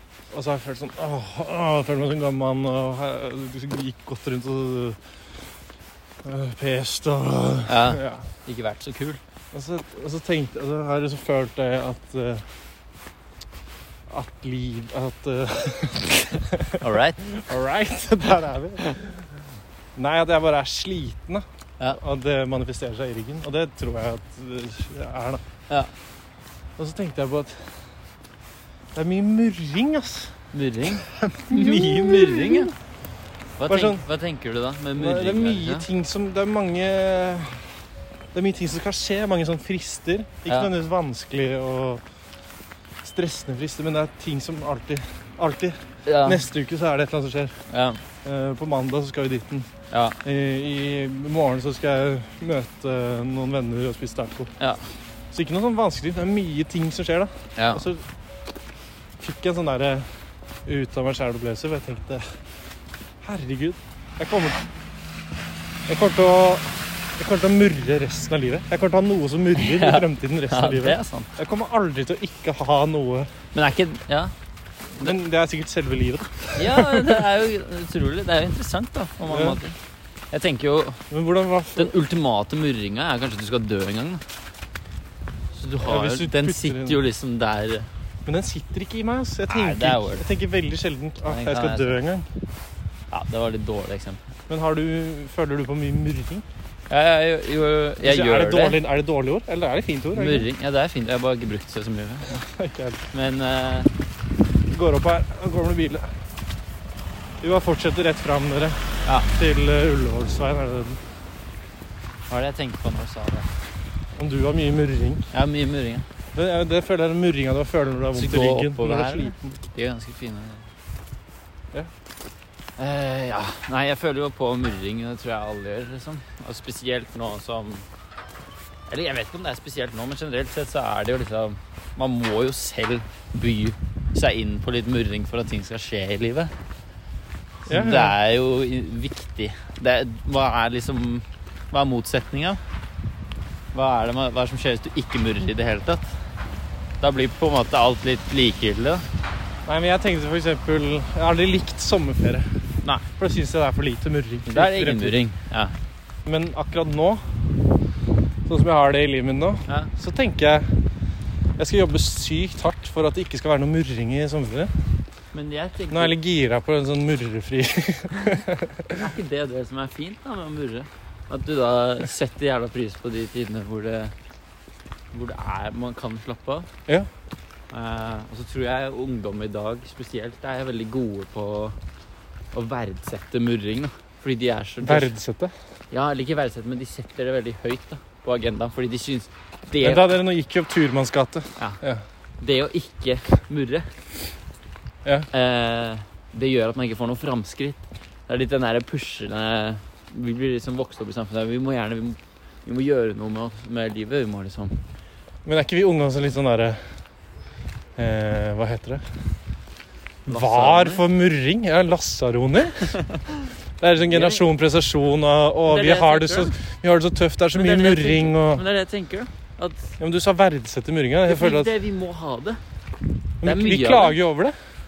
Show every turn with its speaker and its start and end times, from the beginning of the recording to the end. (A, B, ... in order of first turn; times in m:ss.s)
0:00.3-0:05.0 A
0:06.2-0:08.2 A
0:07.6-0:09.2 B
0:09.5-0:12.4 A
0:14.1-0:19.2 A
0:16.8-0:17.2 B
0:20.0-0:25.4 A
0:26.8-0:27.8 A
0:28.9-0:30.3 A
0:30.5-0:32.7 B
0:31.0-0:32.7 A
0:33.6-0:35.8 B
0:33.7-0:34.0 A
0:35.0-0:37.7 A
0:38.3-0:42.0 A
0:43.0-0:47.5 A
0:46.0-0:46.4 B
0:47.7-0:48.0 B
0:48.2-0:49.7 A
0:49.9-0:50.2 B
0:50.2-0:54.5 A
0:55.3-0:58.0 A
0:57.6-0:57.8 B
0:59.2-1:00.1 A
1:00.6-1:02.2 A
1:03.2-1:04.6 A
1:05.9-1:13.3 A
1:09.6-1:11.3 B
1:13.5-1:14.3 B
1:15.0-1:17.2 A
1:16.6-1:19.8 B
1:19.3-1:19.6 A
1:20.3-1:21.0 B
1:21.1-1:21.9 A
1:21.8-1:24.2 B
1:25.5-1:27.9 B
1:25.8-1:27.0 A
1:28.2-1:32.3 A
1:29.5-1:30.2 B
1:31.3-1:32.0 B
1:33.1-1:34.3 B
1:34.5-1:36.4 A
1:36.9-1:38.8 B
1:38.0-1:40.5 A
1:40.1-1:42.4 B
1:42.3-1:43.0 A
1:43.1-1:43.9 B
1:44.7-1:46.1 A
1:47.4-1:51.0 A
1:49.0-1:49.3 B
1:52.3-1:53.5 B
1:54.2-1:55.3 A
1:55.3-1:56.0 B
1:56.3-1:59.5 A
1:58.1-2:00.6 B
2:02.8-2:07.9 B
2:08.9-2:16.5 B
2:17.7-2:18.1 A
2:17.7-2:22.6 B
2:23.7-2:26.1 B
2:27.0-2:29.0 B
2:29.6-2:32.5 A
2:33.2-2:35.2 A
2:34.5-2:35.7 B
2:36.2-2:37.2 A
2:38.4-2:40.7 A
2:39.7-2:39.9 B
2:41.6-2:44.7 A
2:45.3-2:46.1 B
2:45.9-2:49.1 A
2:49.0-2:54.1 B
2:55.1-2:56.7 B
2:57.7-3:01.8 B
3:02.5-3:05.1 B
3:04.8-3:05.5 A
3:05.9-3:10.1 B
3:09.8-3:12.0 A
3:12.4-3:13.9 B
3:15.3-3:24.8 B
3:25.4-3:26.8 A
3:28.0-3:29.0 A
3:30.3-3:31.0 B
3:30.3-3:33.0 A
3:33.8-3:38.6 A
3:34.1-3:34.5 B
3:35.7-3:36.6 B
3:37.5-3:39.9 B
3:40.0-3:41.7 A
3:41.2-3:42.6 B
3:43.4-3:44.6 A
3:43.4-3:44.2 B